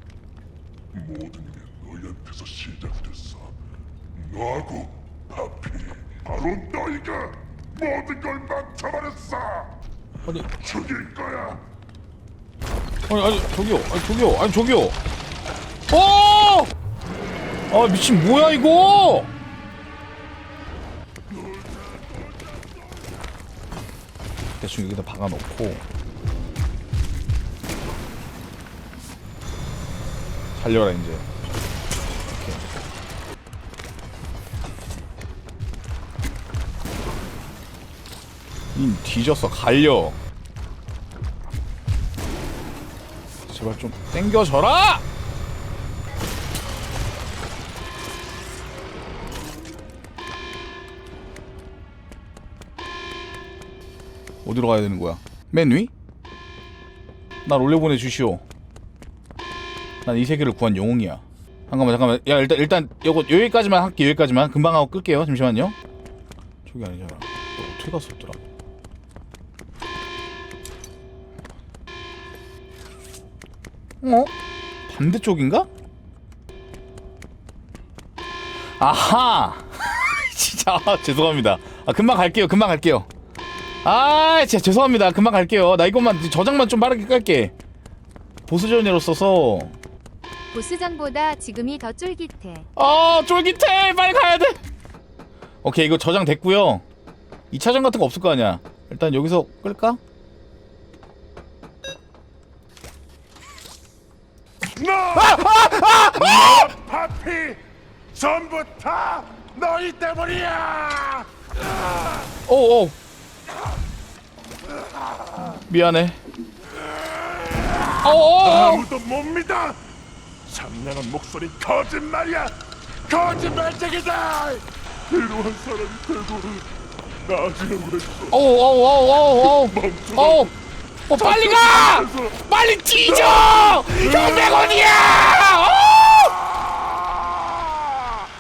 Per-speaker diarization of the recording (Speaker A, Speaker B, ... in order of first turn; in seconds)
Speaker A: 0.9-3.5, 4.1-9.7, 10.5-11.6, 21.4-22.1, 104.7-107.6, 108.1-111.3, 117.4-119.8, 120.5-126.7, 127.2-128.4, 129.4-130.5, 131.2-132.5, 133.0-134.9
Speaker B: 13.1-15.0, 15.9-16.7, 17.7-19.3, 24.6-25.8, 30.5-31.2, 32.3-32.6, 38.7-40.2, 43.5-45.0, 54.4-55.9, 57.4-58.4, 60.0-65.8, 66.6-68.4, 74.0-74.3, 74.9-75.7, 78.8-83.1, 83.8-87.5, 88.5-89.8, 92.8-94.6, 95.6-96.8, 97.5-100.0, 105.3-106.7, 112.5-112.9, 115.5-116.2, 118.0-118.9, 128.3-130.5, 131.1-136.3
Speaker C: 90.5-92.7